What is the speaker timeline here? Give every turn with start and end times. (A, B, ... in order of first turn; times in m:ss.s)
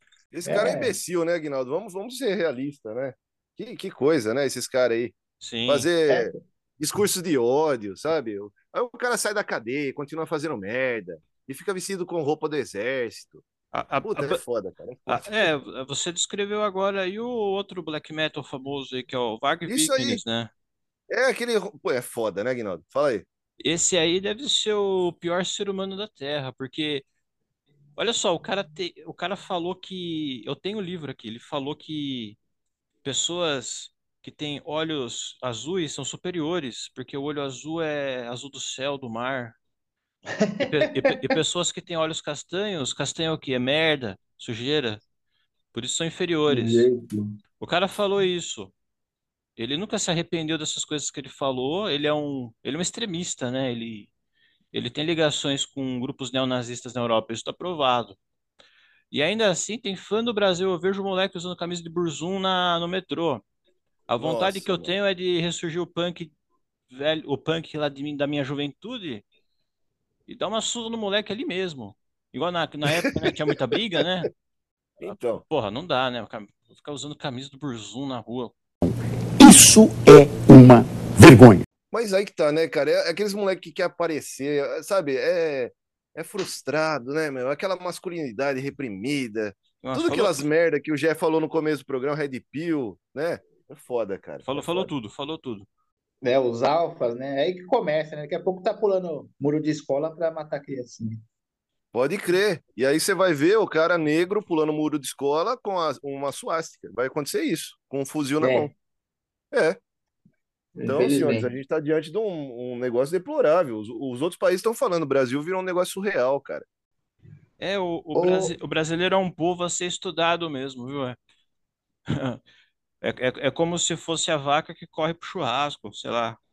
0:00.3-0:05.2 A
0:00.5-0:00.9 B
0:05.4-0:05.9 C
0:05.7-0:13.4 A
0:06.1-0:06.3 B
0:13.7-0:14.4 C
0:14.1-0:15.5 A
0:15.1-0:20.5 C
0:19.7-0:20.2 A
0:21.1-0:23.3 A
0:23.6-0:27.1 C
0:28.0-0:32.4 C
0:33.0-0:39.6 C
0:40.4-0:41.3 B
0:40.6-0:45.0 C
0:45.7-0:46.9 C
0:46.5-0:47.4 B
0:47.6-0:48.7 C
0:49.6-0:54.1 C
0:54.7-0:58.2 C
0:59.1-1:03.4 C
1:04.1-1:06.3 C
1:04.2-1:04.9 A
1:06.9-1:09.2 C
1:10.3-1:14.3 C
1:15.0-1:15.4 A
1:15.0-1:18.5 C
1:19.4-1:21.6 D
1:21.9-1:34.9 A
1:29.8-1:30.4 C
1:34.4-1:35.7 C
1:36.2-1:41.2 B
1:41.9-1:48.7 A
1:48.4-1:48.7 B
1:49.5-1:49.8 A
1:50.8-1:51.5 B
1:50.9-1:56.6 A
1:57.6-2:01.2 C
1:58.2-1:58.5 B
2:02.1-2:02.4 C
2:03.0-2:06.4 C